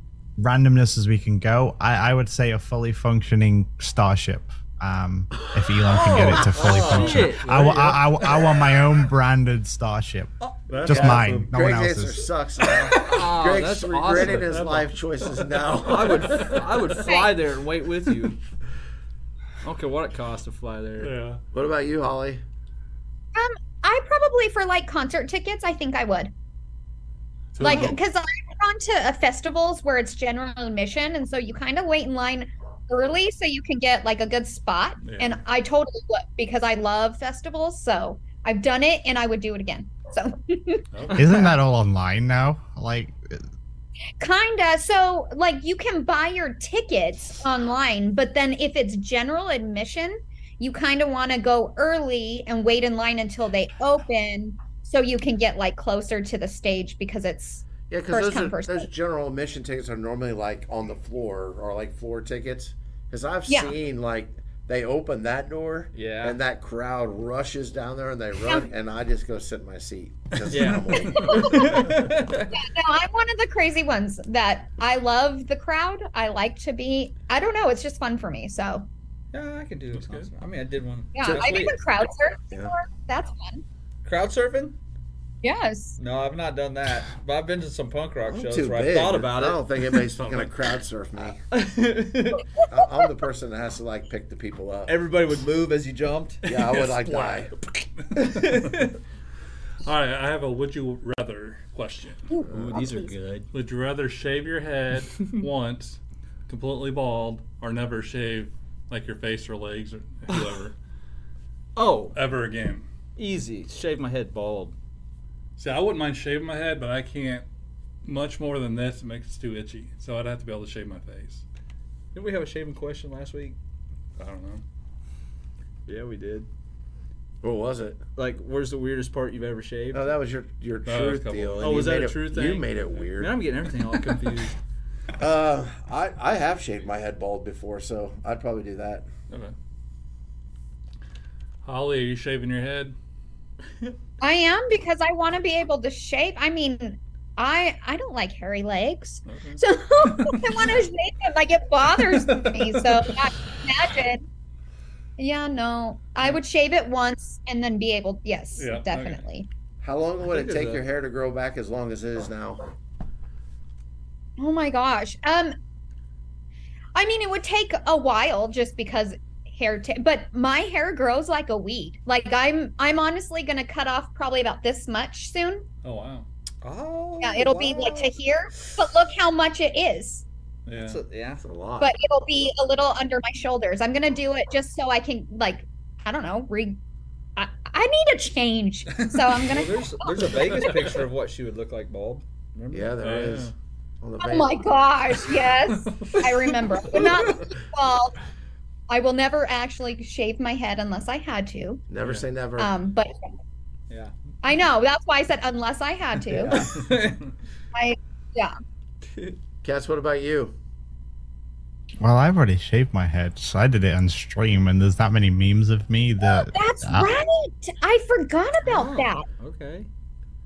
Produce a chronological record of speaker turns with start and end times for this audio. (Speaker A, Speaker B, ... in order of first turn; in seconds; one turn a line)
Speaker A: 0.4-10.3
Speaker B: 5.8-7.6
Speaker C: 6.5-8.5
Speaker C: 10.7-11.5
Speaker A: 10.8-12.3
Speaker D: 10.9-16.6
Speaker C: 12.7-13.2
Speaker B: 13.0-14.5
Speaker C: 14.1-17.0
Speaker B: 15.9-18.4
Speaker E: 17.1-17.3
Speaker B: 19.6-21.1
Speaker C: 21.0-21.4
Speaker D: 21.5-22.4
Speaker E: 23.4-26.3
Speaker C: 27.5-28.0
Speaker E: 27.6-41.4
Speaker B: 27.6-27.9
Speaker C: 35.0-35.4
Speaker C: 40.9-41.3
Speaker A: 41.1-43.4
Speaker E: 44.2-58.9
Speaker D: 57.9-72.0
Speaker E: 63.5-63.7
Speaker B: 65.9-66.4
Speaker B: 70.5-72.5
Speaker C: 70.9-72.1
Speaker E: 71.0-71.9
Speaker E: 72.5-78.9
Speaker B: 79.3-81.8
Speaker C: 79.9-80.3
Speaker E: 81.1-83.6
Speaker B: 84.0-84.8
Speaker E: 85.4-86.0
Speaker B: 86.0-89.6
Speaker D: 88.3-91.4
Speaker C: 90.2-90.6
Speaker B: 91.5-92.5
Speaker D: 92.7-94.9
Speaker B: 94.9-97.0
Speaker D: 96.5-97.5
Speaker C: 97.0-97.5
Speaker B: 97.6-99.0
Speaker C: 98.0-98.9
Speaker C: 99.8-102.4
Speaker E: 102.4-102.8
Speaker D: 102.5-102.8
Speaker B: 102.5-103.5
Speaker C: 103.5-110.7
Speaker B: 111.8-112.2
Speaker C: 112.1-112.9
Speaker B: 113.2-114.8
Speaker C: 115.6-117.5
Speaker C: 118.0-121.4
Speaker B: 122.1-123.6
Speaker C: 124.2-124.6
Speaker B: 125.9-126.5
Speaker D: 127.4-128.0
Speaker B: 128.2-130.1
Speaker D: 129.9-133.4
Speaker C: 130.9-131.6
Speaker B: 131.6-134.6
Speaker C: 134.0-134.3
Speaker D: 135.2-139.1
Speaker C: 139.3-139.6
Speaker C: 141.6-142.9
Speaker E: 144.2-154.3
Speaker C: 149.3-150.8
Speaker C: 152.0-153.2
Speaker E: 155.2-159.5
Speaker C: 158.6-159.2
Speaker D: 159.8-162.7
Speaker B: 160.2-160.8
Speaker E: 164.4-165.6
Speaker E: 166.9-175.6
Speaker C: 175.8-176.3
Speaker B: 176.6-178.1
Speaker E: 177.2-180.2
Speaker C: 180.7-181.0
Speaker B: 180.8-181.4
Speaker D: 181.4-181.9
Speaker E: 181.8-186.8
Speaker E: 187.4-190.4
Speaker C: 189.0-189.2
Speaker B: 189.4-193.2
Speaker C: 190.5-191.0
Speaker D: 192.7-194.6
Speaker C: 193.0-193.5
Speaker E: 194.2-198.2
Speaker C: 195.9-197.4
Speaker E: 198.9-201.8
Speaker D: 201.9-202.7
Speaker C: 202.0-202.3
Speaker E: 202.6-203.3
Speaker E: 204.4-206.5
Speaker D: 206.3-206.8
Speaker B: 206.5-207.2
Speaker C: 206.8-207.1
Speaker E: 207.7-208.6
Speaker B: 209.0-209.4
Speaker D: 209.6-210.6
Speaker A: 212.0-217.1
Speaker E: 216.2-219.2
Speaker B: 218.6-219.9